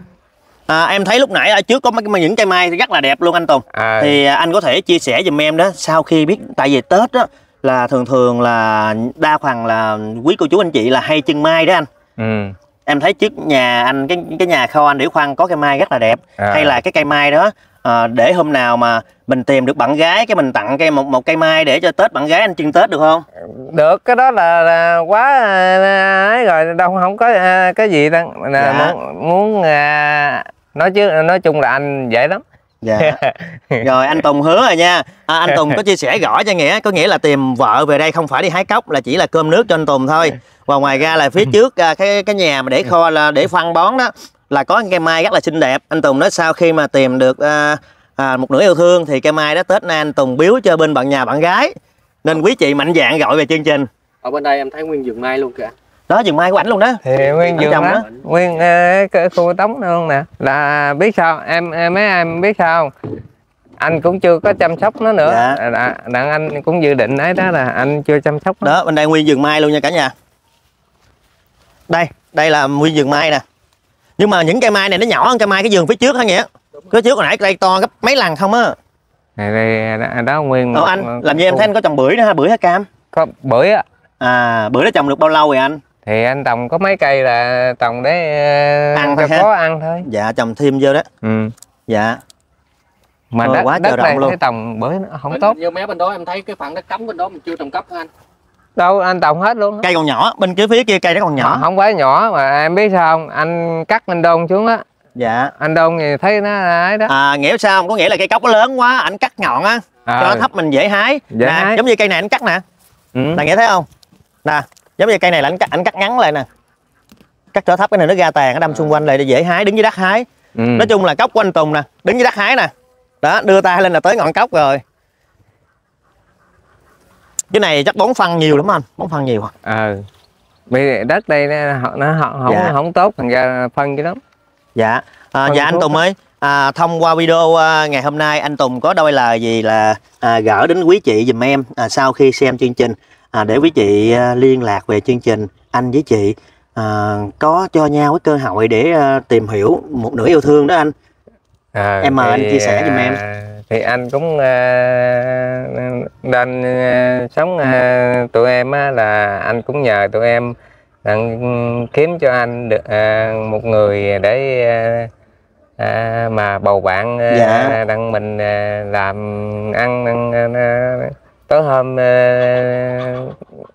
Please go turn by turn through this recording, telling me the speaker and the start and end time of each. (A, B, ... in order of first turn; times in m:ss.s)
0:00.7-0:11.9 A
0:03.7-0:04.2 B
0:12.2-0:12.6 B
0:12.9-0:23.3 A
0:16.4-0:16.8 B
0:23.4-0:32.4 B
0:28.6-0:29.0 A
0:32.8-0:33.2 A
0:33.0-0:33.8 B
0:33.8-0:51.7 A
0:35.5-0:35.8 B
0:52.2-0:53.9 A
0:54.2-0:55.7 C
0:56.1-0:57.0 A
0:57.0-1:02.9 B
0:57.2-0:58.2 C
0:57.5-0:58.0 A
1:03.8-1:08.7 B
1:05.2-1:05.6 A
1:08.6-1:10.1 A
1:11.9-1:13.4 A
1:14.2-1:18.8 A
1:19.4-1:21.7 B
1:20.7-1:22.9 A
1:23.1-1:23.8 B
1:24.2-1:25.8 A
1:26.0-1:30.1 B
1:29.0-1:29.5 A
1:30.0-1:31.1 A
1:31.2-1:31.5 B
1:31.9-1:32.2 A
1:33.3-1:35.6 B
1:33.4-1:34.4 A
1:35.3-1:38.1 C
1:38.8-1:39.9 B
1:39.8-1:41.7 A
1:41.4-1:44.8 B
1:45.2-1:45.5 A
1:45.6-1:47.1 B
1:47.1-1:52.6 A
1:50.1-1:50.5 B
1:51.3-1:51.8 B
1:53.2-1:53.4 B
1:53.4-1:53.9 A
1:54.4-1:56.5 A
1:57.5-2:02.7 A
2:00.6-2:00.9 B
2:03.2-2:04.8 A
2:07.5-2:09.5 A
2:09.6-2:10.0 B
2:10.7-2:14.2 B
2:12.5-2:12.7 A
2:14.8-2:30.9 A
2:15.5-2:16.0 B
2:31.8-2:45.1 B
2:32.0-2:33.2 A
2:45.8-2:53.4 B
2:47.3-2:47.8 A